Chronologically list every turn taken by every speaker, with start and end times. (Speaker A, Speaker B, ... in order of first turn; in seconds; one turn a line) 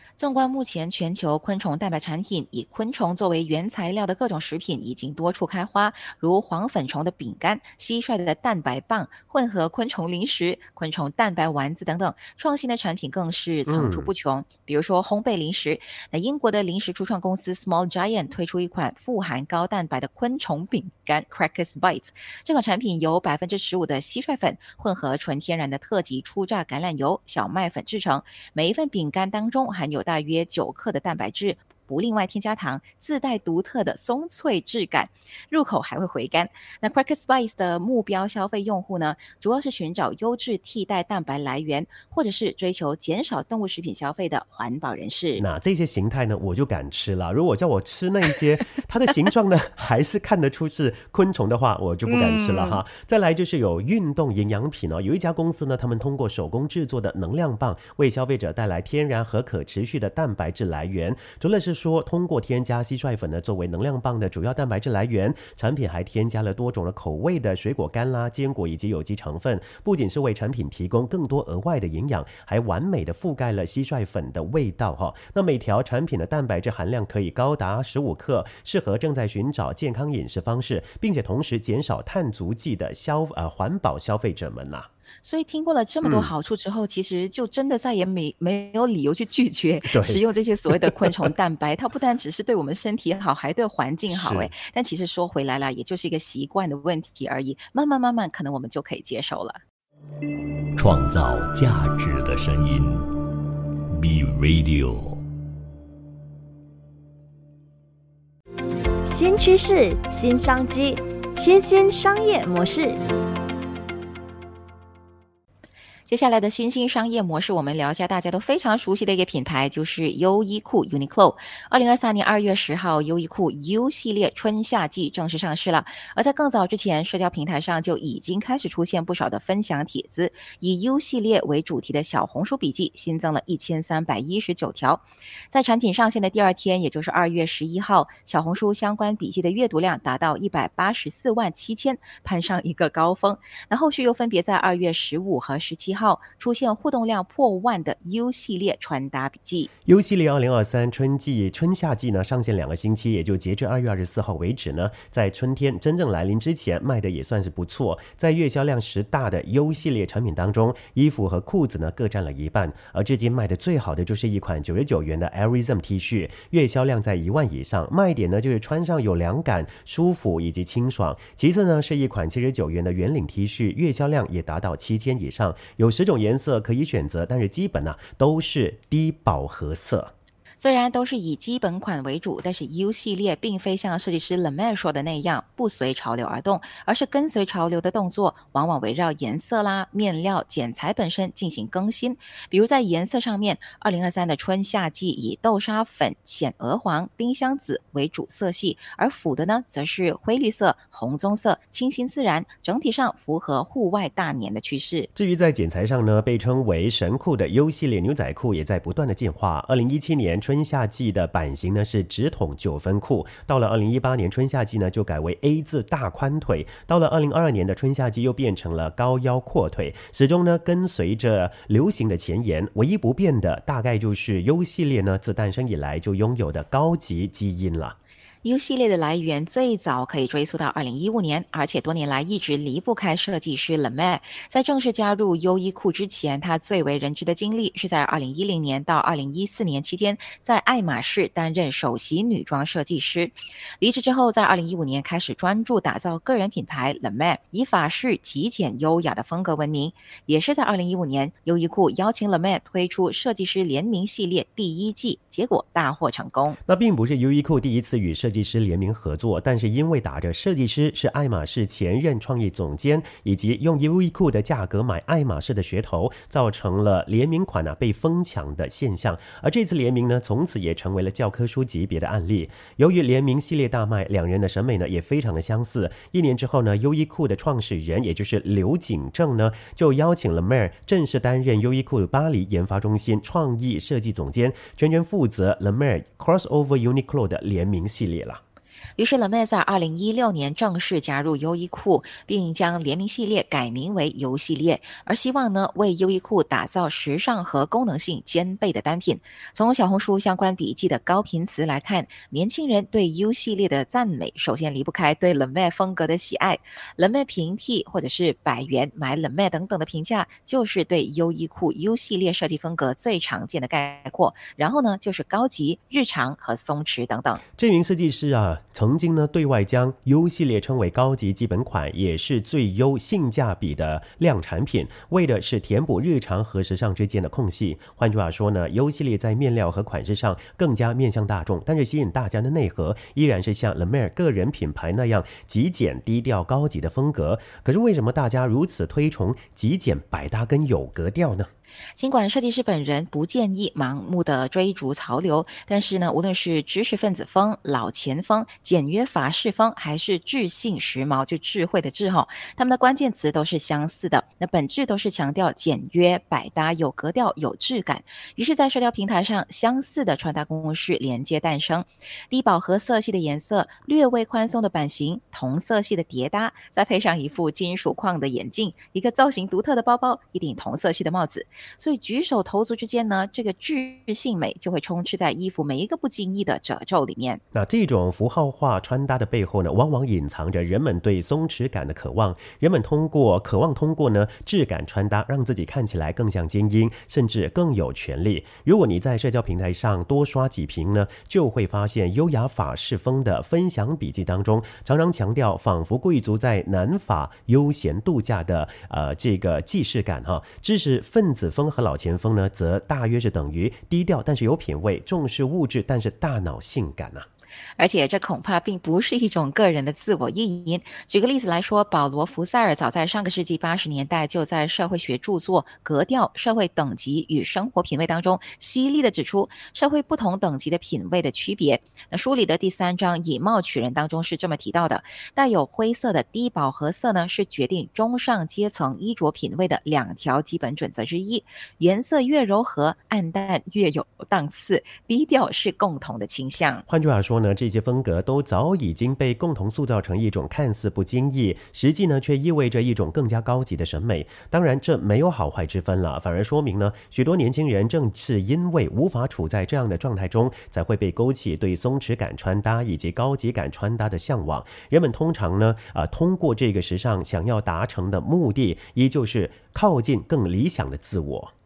Speaker A: 0.2-45.4
Speaker B: 13.7-14.1
Speaker B: 45.4-84.9
Speaker A: 52.1-52.8
Speaker A: 85.2-99.6
Speaker B: 86.0-86.3
Speaker B: 89.8-91.3
Speaker B: 94.1-94.5
Speaker C: 100.8-103.0
Speaker C: 103.9-105.2
Speaker D: 109.0-113.0
Speaker A: 116.1-149.7
Speaker B: 149.8-180.1
Speaker A: 180.6-205.1
Speaker B: 205.1-227.9
Speaker A: 228.4-256.6
Speaker B: 256.6-288.4
Speaker A: 288.9-317.4
Speaker B: 317.6-341.5
Speaker A: 342.0-377.4
Speaker B: 377.5-407.3
Speaker A: 407.8-436.8
Speaker B: 436.9-461.5